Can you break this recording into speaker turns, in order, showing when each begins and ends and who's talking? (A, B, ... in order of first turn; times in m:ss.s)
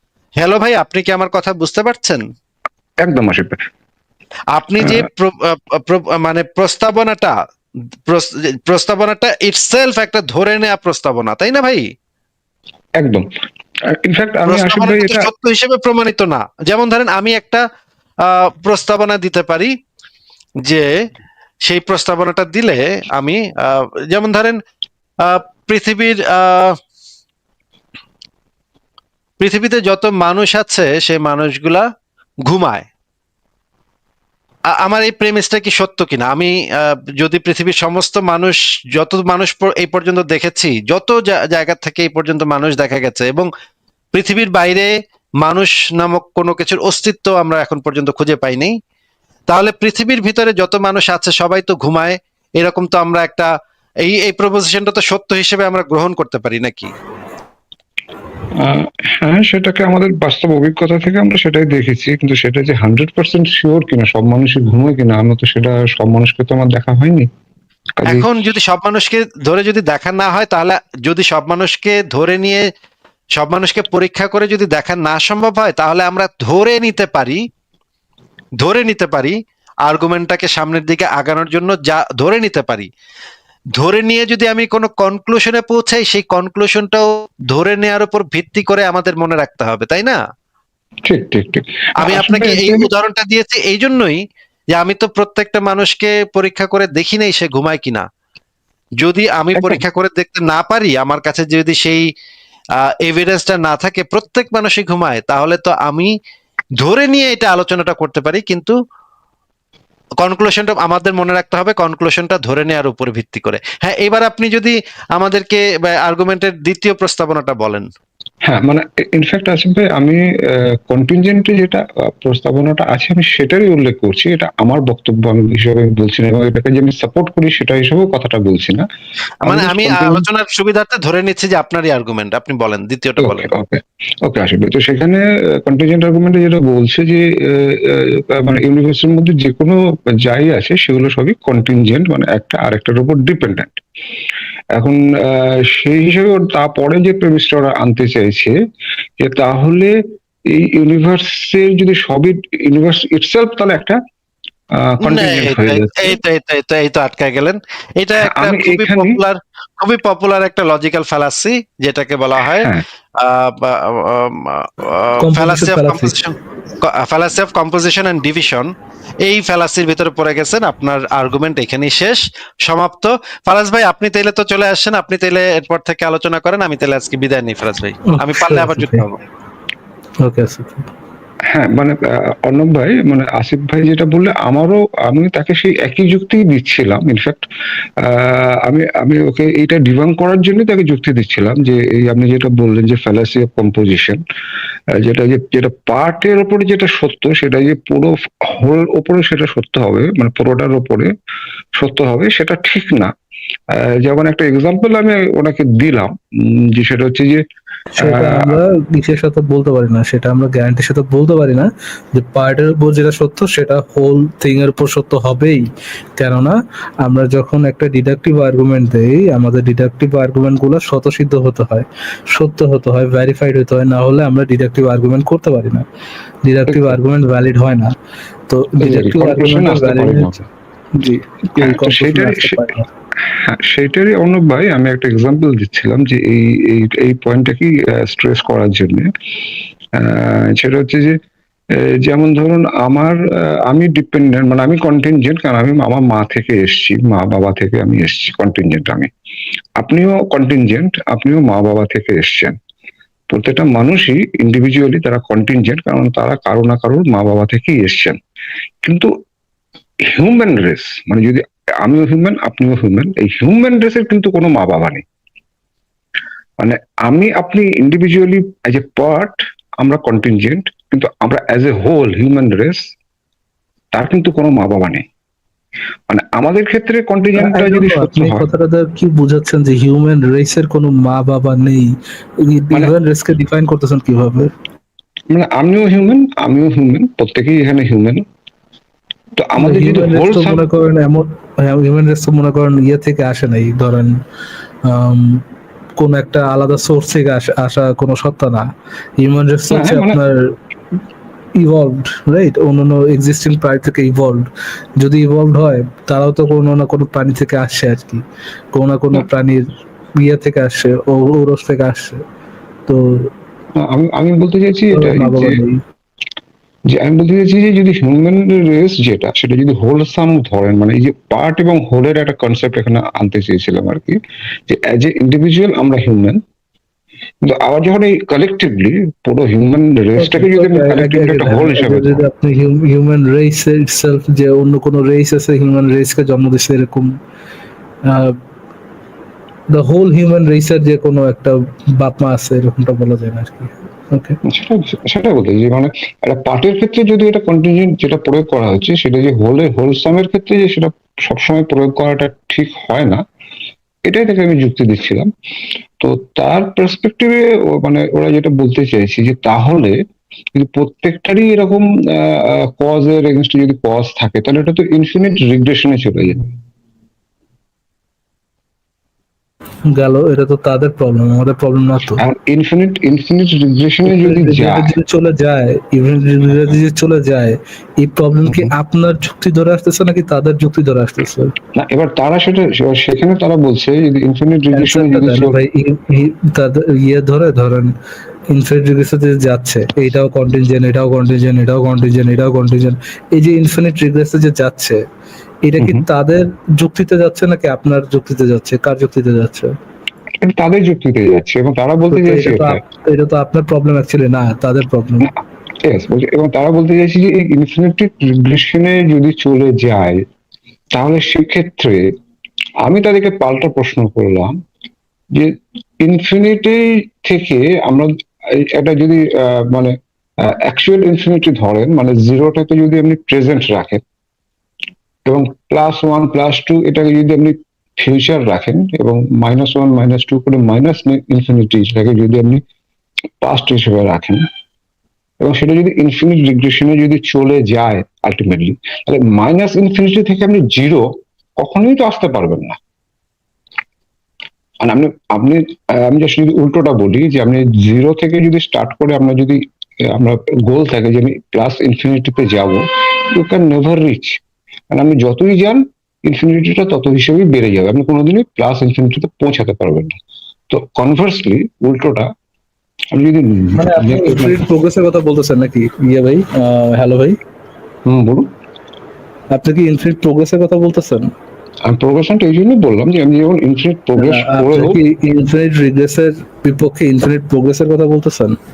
0:00.4-0:02.2 A
0:03.0-0:03.6 B
0:04.5-0:07.3 A
0:08.1-0:11.9 A
0:13.0-0:13.2 B
0:13.9-0:15.3 B
0:14.5-0:17.6 A
0:18.2-0:19.7 A
0:21.6-0:24.6 A
0:25.2-0:26.8 A
0:29.4-0:31.8 A
0:32.5-0:32.9 A
0:34.7-0:43.5 A
0:44.1-0:48.8 A
0:49.5-0:53.5 A
0:54.0-0:56.9 A
0:58.6-1:07.3 B
1:08.0-1:08.3 B
1:08.0-1:12.6 A
1:13.4-1:17.4 A
1:18.6-1:22.9 A
1:23.8-1:30.2 A
1:31.0-1:32.9 B
1:32.0-1:34.2 A
1:34.7-1:38.0 A
1:39.0-1:42.1 A
1:39.5-1:39.8 B
1:42.8-1:46.1 A
1:46.8-1:48.8 A
1:50.2-1:57.8 A
1:58.4-2:08.8 B
2:09.4-2:13.5 A
2:09.4-2:10.2 B
2:13.2-2:23.8 B
2:24.7-2:28.5 B
2:29.2-2:29.9 B
2:30.5-2:34.0 B
2:34.8-2:36.2 B
2:35.0-2:48.7 A
2:38.2-2:39.2 B
2:42.4-2:42.8 B
2:45.2-2:46.2 C
2:49.2-2:59.2 A
2:58.1-2:59.0 C
3:00.2-3:00.9 C
3:01.5-3:07.4 B
3:08.0-3:14.2 B
3:14.9-3:21.1 B
3:21.8-3:23.1 B
3:23.7-3:27.4 B
3:28.0-3:45.8 C
3:28.0-3:28.6 B
3:46.4-3:47.9 C
3:46.6-3:47.0 B
3:48.5-3:50.3 C
3:48.8-3:50.5 B
3:51.0-3:52.9 C
3:51.6-3:52.7 B
3:53.3-3:59.1 B
4:00.0-4:01.2 B
4:01.7-4:09.1 B
4:09.8-4:12.6 B
4:13.3-4:18.2 B
4:18.8-4:19.1 B
4:20.0-4:25.0 B
4:26.6-4:32.8 B
4:33.9-4:35.0 B
4:36.1-4:38.5 B
4:37.4-4:44.5 C
4:45.3-4:48.2 B
4:49.4-4:50.6 B
4:49.6-4:54.2 C
4:54.9-4:55.4 C
4:56.0-4:58.7 C
4:59.2-5:00.5 C
4:59.7-5:00.2 B
5:01.6-5:04.5 C
5:05.0-5:08.2 C
5:08.7-5:09.6 C
5:10.2-5:12.2 C
5:12.9-5:13.3 C
5:13.8-5:15.6 B
5:14.9-5:15.8 C
5:16.9-5:26.4 B
5:27.4-5:32.2 B
5:30.2-5:37.1 C
5:38.0-5:38.4 C
5:39.7-5:44.4 C
5:44.4-5:53.2 B
5:54.0-5:55.3 B
5:56.0-6:00.0 B
6:00.5-6:06.4 B
6:09.9-6:12.2 C
6:12.2-6:14.9 B
6:14.0-6:21.5 C
6:18.4-6:18.7 B
6:21.7-6:25.6 B
6:24.7-6:27.9 C
6:28.5-6:35.0 C
6:35.6-6:39.7 C
6:35.8-6:36.0 B
6:40.4-6:42.8 B
6:42.1-6:45.3 C
6:45.2-6:50.2 B
6:50.9-6:52.1 B
6:52.8-6:54.6 B
6:55.3-7:04.0 B
7:05.2-7:12.6 B
7:13.4-7:14.4 B
7:15.4-7:21.1 B
7:21.6-7:22.8 B
7:24.8-7:40.1 B
7:40.7-7:42.3 B
7:43.1-7:44.6 B
7:43.8-7:47.4 C
7:48.0-7:48.5 B
7:49.5-7:51.3 C
7:51.8-7:55.0 B
7:54.2-7:58.6 C